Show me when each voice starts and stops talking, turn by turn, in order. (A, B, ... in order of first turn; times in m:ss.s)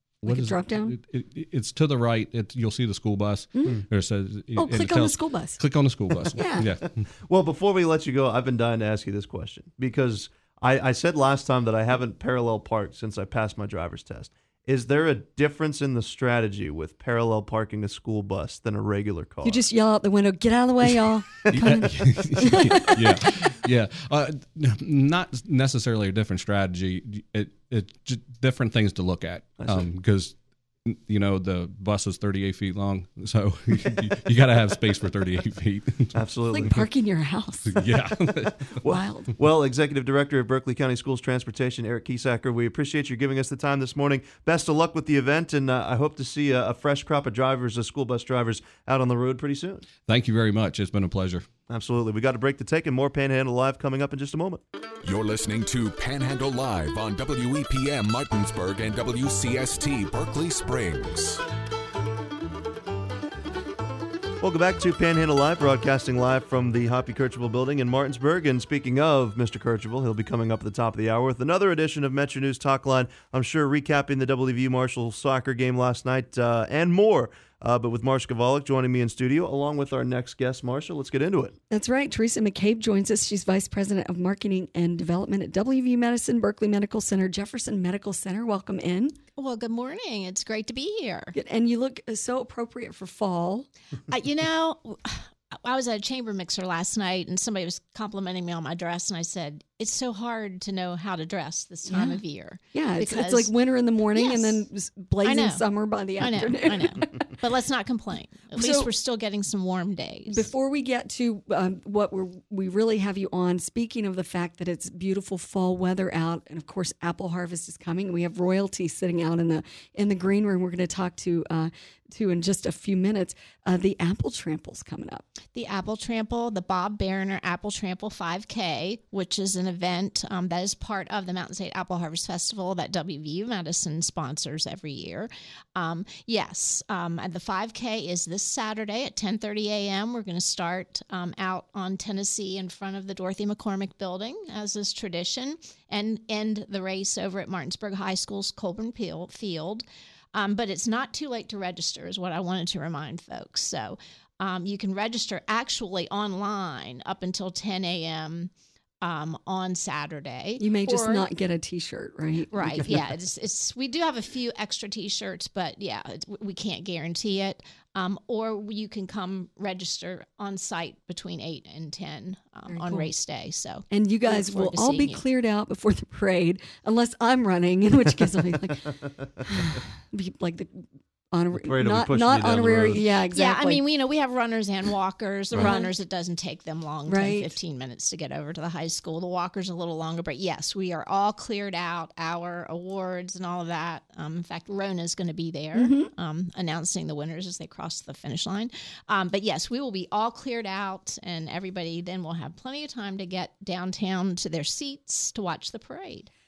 0:00.2-0:07.0 A
0:00.2-0:01.0 B
0:04.6-0:05.6 B
0:06.4-0:06.7 B
0:07.2-0:19.6 C
0:19.4-0:23.0 B
0:21.5-0:36.7 A
0:29.6-0:29.9 C
0:36.1-0:36.9 C
0:36.5-0:37.8 B
0:37.7-0:38.8 A
0:38.7-0:49.9 C
0:38.9-0:39.3 B
0:50.1-0:51.4 A
0:51.7-0:54.6 C
0:55.0-1:01.4 D
1:04.4-1:21.5 C
1:21.7-1:29.2 B
1:29.4-1:31.4 E
1:31.3-1:33.7 B
1:34.1-1:43.5 E
1:41.9-1:42.2 B
1:42.7-1:47.3 B
1:44.1-1:44.6 E
1:45.2-1:45.6 E
1:46.2-1:50.5 E
1:48.5-1:48.9 B
1:50.3-2:05.2 B
2:05.5-2:41.3 E
2:40.6-2:42.9 B
2:42.5-2:55.2 E
2:52.7-2:53.1 B
2:53.9-2:58.9 B
2:59.5-3:03.8 B
3:01.6-3:03.0 C
3:03.3-3:26.3 E
3:05.6-3:05.9 B
3:07.1-3:07.5 B
3:15.7-3:16.1 B